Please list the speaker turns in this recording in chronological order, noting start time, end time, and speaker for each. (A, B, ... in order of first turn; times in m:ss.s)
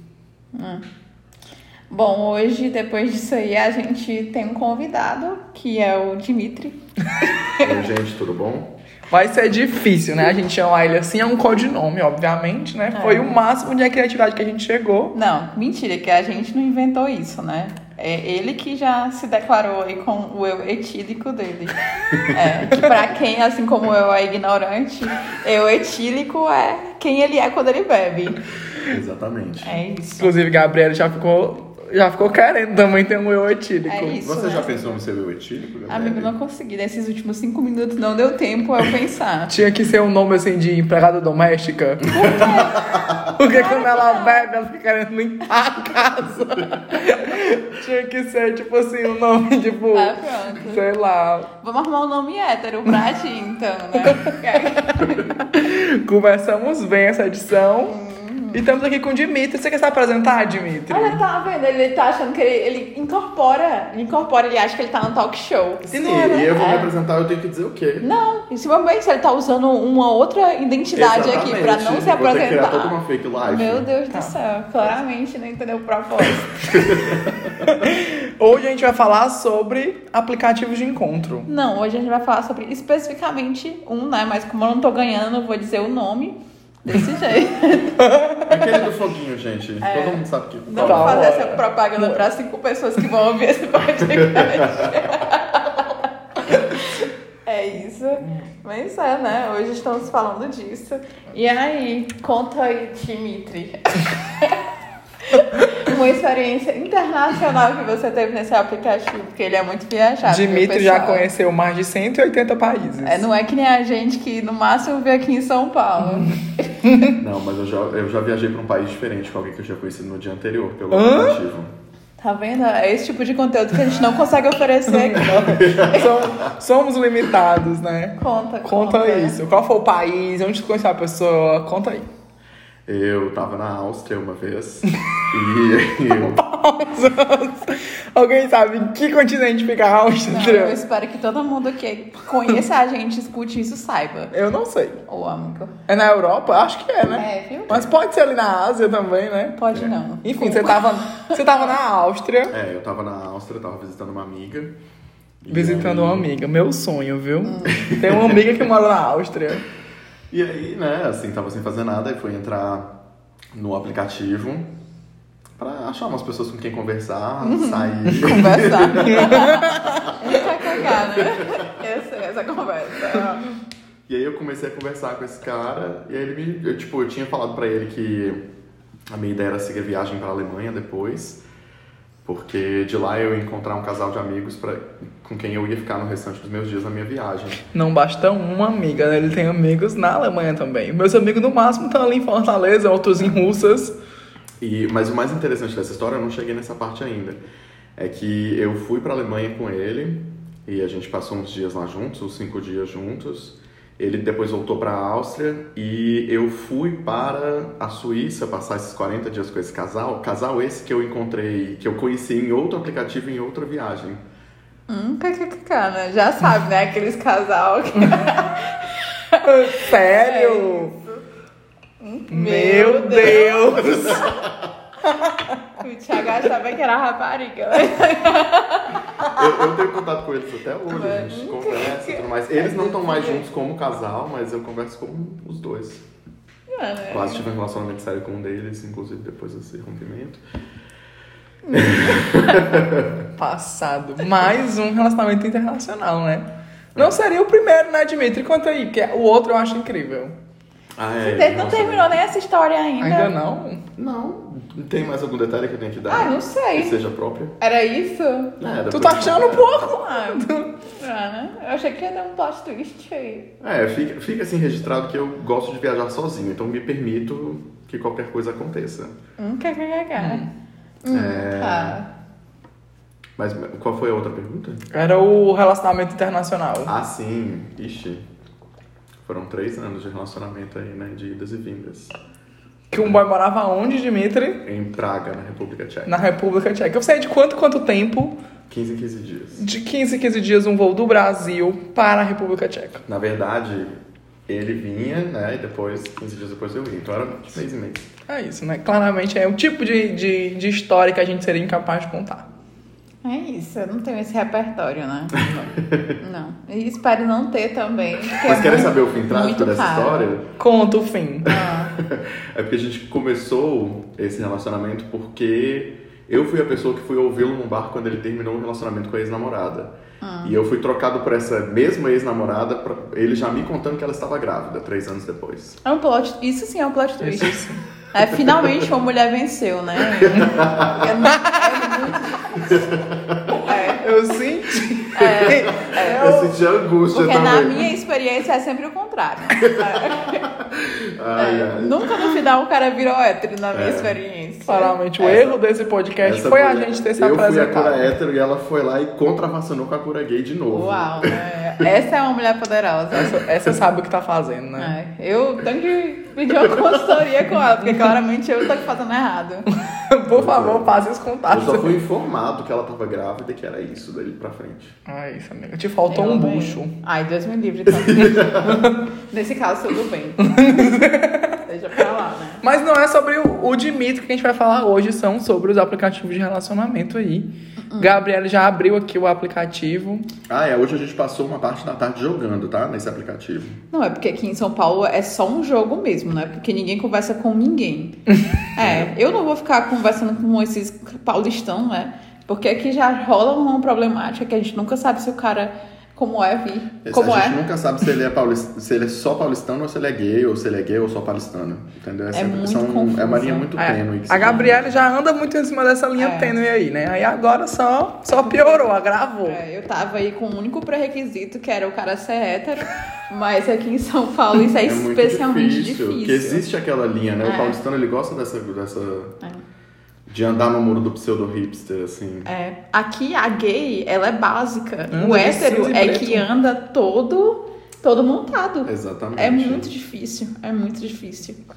0:00.5-0:00.8 A
0:01.9-0:07.7 A
0:07.6-0:08.7 B
0:09.1-0:15.2 C
0:12.9-0:13.4 A
0:15.1-0:28.4 A
0:22.1-0:23.0 B
0:28.8-0:29.8 B
0:29.6-0:30.3 A
0:30.2-0:34.2 C
0:33.9-0:34.9 A
0:34.2-0:36.3 B
0:35.9-0:39.5 A
0:39.5-0:42.7 C
0:42.0-0:44.5 A
0:43.3-0:51.5 C
0:49.9-0:50.8 A
0:51.6-0:55.6 A
0:54.0-0:54.3 C
0:55.5-0:58.0 C
0:57.9-0:58.6 A
0:58.5-1:01.2 C
1:00.9-1:06.9 A
1:05.9-1:08.1 B
1:08.0-1:16.8 A
1:10.9-1:13.9 B
1:16.6-1:17.5 B
1:17.6-1:21.5 C
1:21.5-1:28.0 A
1:28.0-1:28.6 C
1:28.5-1:31.3 B
1:29.8-1:44.6 A
1:30.8-1:32.2 C
1:34.0-1:35.1 B
1:45.2-1:51.3 A
1:50.3-1:53.3 C
1:53.0-1:56.9 A
1:57.2-2:01.7 B
2:00.9-2:01.4 C
2:02.2-2:06.1 A
2:04.9-2:12.1 C
2:05.3-2:06.5 B
2:08.2-2:09.4 A
2:12.9-2:16.4 B
2:16.1-2:20.8 C
2:20.3-2:24.3 A
2:24.3-2:25.0 C
2:25.1-2:25.7 A
2:25.9-2:29.6 C
2:27.0-2:27.9 A
2:29.6-2:31.5 A
2:30.2-2:32.5 C
2:32.5-2:34.8 B
2:35.4-2:36.3 B
2:35.5-2:39.6 C
2:37.4-2:38.0 A
2:37.9-2:38.4 B
2:40.3-2:42.9 B
2:43.5-2:44.7 B
2:45.6-2:50.1 B
2:47.4-2:53.5 A
2:49.0-2:49.9 C
2:50.7-2:51.7 B
2:54.1-2:58.4 B
2:59.1-3:01.4 B
3:02.2-3:07.6 B
3:07.7-3:14.0 C
3:13.2-3:13.5 B
3:14.6-3:17.4 B
3:18.0-3:34.2 B
3:34.9-3:41.2 A
3:38.0-3:38.4 C
3:39.4-3:40.9 C
3:42.0-3:44.3 A
3:42.3-3:44.3 C
3:44.2-3:44.5 B
3:45.0-3:45.6 C
3:45.8-3:49.4 A
3:49.2-3:56.0 B
3:50.9-3:53.5 A
3:56.7-3:57.5 A
3:57.1-4:00.4 B
4:01.6-4:02.6 A
4:01.7-4:03.3 B
4:03.4-4:10.3 C
4:11.0-4:12.2 B
4:11.2-4:13.3 A
4:13.0-4:13.8 C
4:14.0-4:17.6 B
4:16.1-4:17.0 A
4:17.6-4:18.6 A
4:18.6-4:19.9 B
4:18.9-4:20.7 C
4:19.8-4:23.5 A
4:23.6-4:29.1 B
4:29.4-4:30.5 A
4:30.2-4:30.5 C
4:31.0-4:32.1 A
4:31.1-4:32.0 B
4:33.4-4:34.8 B
4:34.9-4:36.9 C
4:36.8-4:38.3 B
4:39.2-4:42.1 B
4:42.9-4:44.6 C
4:44.6-4:46.2 B
4:46.1-4:48.4 C
4:48.7-4:49.6 B
4:49.6-4:53.0 C
4:53.1-4:58.1 B
4:58.3-5:02.5 C
5:03.2-5:10.3 A
5:05.4-5:06.2 B
5:08.4-5:10.5 B
5:10.6-5:11.5 C
5:11.4-5:11.9 A
5:11.5-5:25.8 B
5:20.2-5:20.6 A
5:25.8-5:32.8 A
5:27.2-5:27.8 C
5:30.1-5:31.2 B
5:31.3-5:31.8 C
5:32.6-5:33.6 B
5:33.5-5:34.0 A
5:33.9-5:36.6 C
5:35.1-5:36.4 A
5:35.2-5:37.9 B
5:37.1-5:40.4 A
5:39.6-5:42.2 B
5:41.4-5:45.0 A
5:43.7-5:44.2 B
5:44.7-5:48.1 C
5:45.2-5:45.6 B
5:46.2-5:51.4 B
5:50.7-5:53.4 A
5:53.1-5:55.0 C
5:54.8-5:59.7 A
5:56.6-5:57.2 B
5:59.7-6:02.0 C
6:00.3-6:00.9 B
6:01.5-6:05.0 B
6:05.1-6:06.9 C
6:06.1-6:11.1 A
6:07.9-6:08.8 B
6:08.6-6:09.0 C
6:10.4-6:11.6 C
6:11.6-6:12.6 A
6:12.6-6:20.3 C
6:17.9-6:18.2 A
6:20.5-6:23.8 B
6:23.9-6:28.2 A
6:28.8-6:37.6 A
6:28.8-6:29.2 B
6:37.0-6:44.9 B
6:42.3-6:43.8 A
6:43.8-6:49.6 C
6:46.2-6:46.6 A
6:48.3-6:56.7 A
6:54.8-6:59.4 B
6:57.4-6:57.8 A
7:00.3-7:02.5 B
7:02.5-7:11.6 A
7:05.1-7:06.5 C
7:08.9-7:09.9 B